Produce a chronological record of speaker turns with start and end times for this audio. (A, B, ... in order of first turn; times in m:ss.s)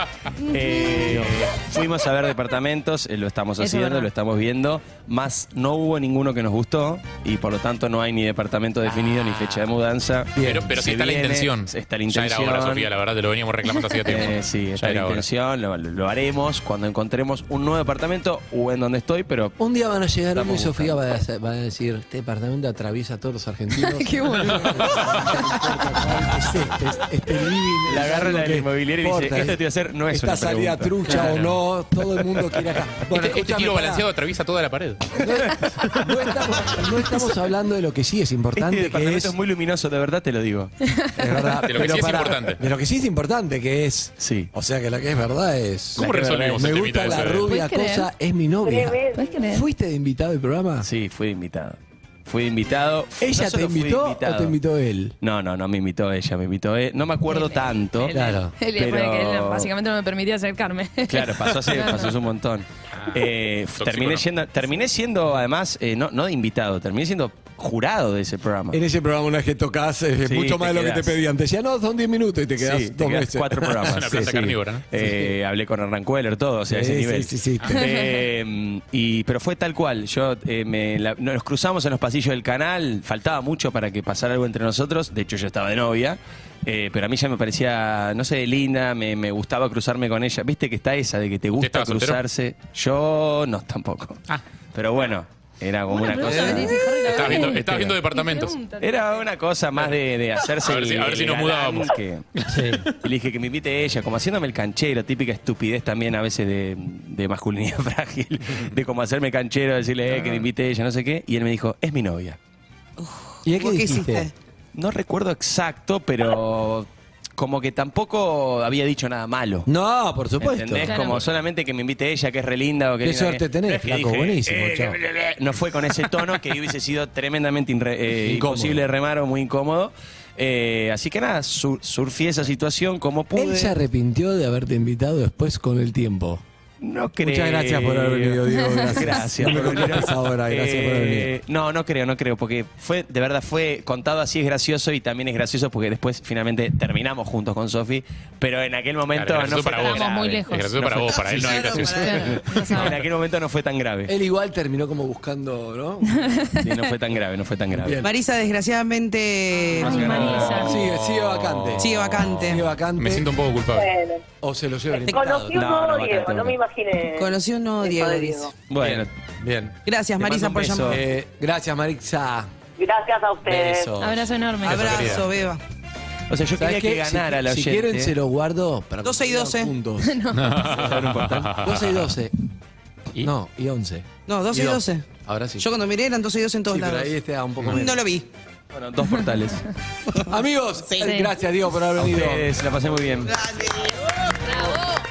0:00.4-0:12.9 A
0:00.6-0:01.2 B
0:01.0-0:01.3 C
0:03.6-0:04.1 B
0:10.3-0:10.7 C
0:10.4-0:15.2 D
0:14.0-0:19.6 A
0:19.6-0:34.1 C
0:20.3-0:21.0 A
0:23.7-0:25.7 B
0:24.9-0:25.2 D
0:27.9-0:31.4 A
0:31.1-0:31.6 D
0:33.1-0:35.2 D
0:35.1-0:39.4 C
0:35.4-0:36.0 A
0:38.5-0:40.7 A
0:41.2-0:50.9 C
0:41.6-0:42.6 D
0:44.2-0:44.5 A
0:46.0-0:47.4 A
0:46.0-0:47.5 D
0:47.4-0:48.1 B
0:48.6-0:49.4 E
0:49.1-0:49.6 B
0:50.8-0:54.6 A
0:53.2-0:55.2 C
0:55.2-0:58.2 A
0:57.2-1:02.2 B
0:58.1-0:58.5 C
0:58.7-0:59.7 A
1:01.0-1:08.8 A
1:03.0-1:04.3 D
1:08.7-1:15.3 C
1:10.2-1:11.2 A
1:12.6-1:34.2 A
1:13.8-1:14.8 D
1:16.7-1:17.8 C
1:17.7-1:18.2 B
1:31.5-1:32.2 D
1:34.7-1:38.0 A
1:35.9-1:39.3 B
1:36.2-1:36.7 C
1:37.0-1:38.6 D
1:38.8-1:42.3 A
1:39.8-1:42.7 D
1:42.5-1:42.9 C
1:42.8-1:52.4 A
1:53.0-1:54.3 F
1:53.4-1:54.3 C
1:54.7-1:59.7 A
1:59.7-2:00.9 C
2:00.4-2:13.7 A
2:00.8-2:01.3 B
2:03.0-2:05.0 C
2:08.2-2:08.8 C
2:13.3-2:16.4 C
2:16.8-2:34.1 A
2:17.2-2:21.3 C
2:29.2-2:32.9 D
2:29.8-2:30.7 B
2:31.3-2:32.1 F
2:31.8-2:33.0 B
2:34.1-2:36.5 C
2:36.2-2:36.8 B
2:36.6-2:38.0 A
2:37.7-2:38.1 C
2:38.0-2:40.4 F
2:39.8-2:40.8 B
2:39.8-2:43.9 D
2:39.8-2:43.3 C
2:41.8-2:42.6 F
2:43.7-2:44.2 E
2:44.4-2:45.7 C
2:44.9-2:48.5 E
2:45.5-2:46.6 A
2:47.2-2:48.5 F
2:48.7-2:49.1 A
2:48.8-2:49.8 C
2:49.8-2:51.0 F
2:50.2-2:51.0 A
2:50.9-2:52.5 C
2:52.8-2:53.9 E
2:53.4-2:54.3 C
2:54.0-2:55.2 B
2:54.6-2:55.6 F
2:54.6-2:55.3 D
2:56.3-2:58.1 A
2:56.6-3:02.3 C
2:59.0-2:59.7 F
3:00.0-3:00.5 B
3:00.3-3:02.1 D
3:00.6-3:01.5 A
3:03.2-3:05.6 C
3:04.2-3:07.1 F
3:06.7-3:08.0 C
3:07.6-3:08.3 F
3:08.7-3:09.6 A
3:10.2-3:12.5 C
3:11.0-3:11.3 B
3:11.9-3:13.4 A
3:13.3-3:14.7 F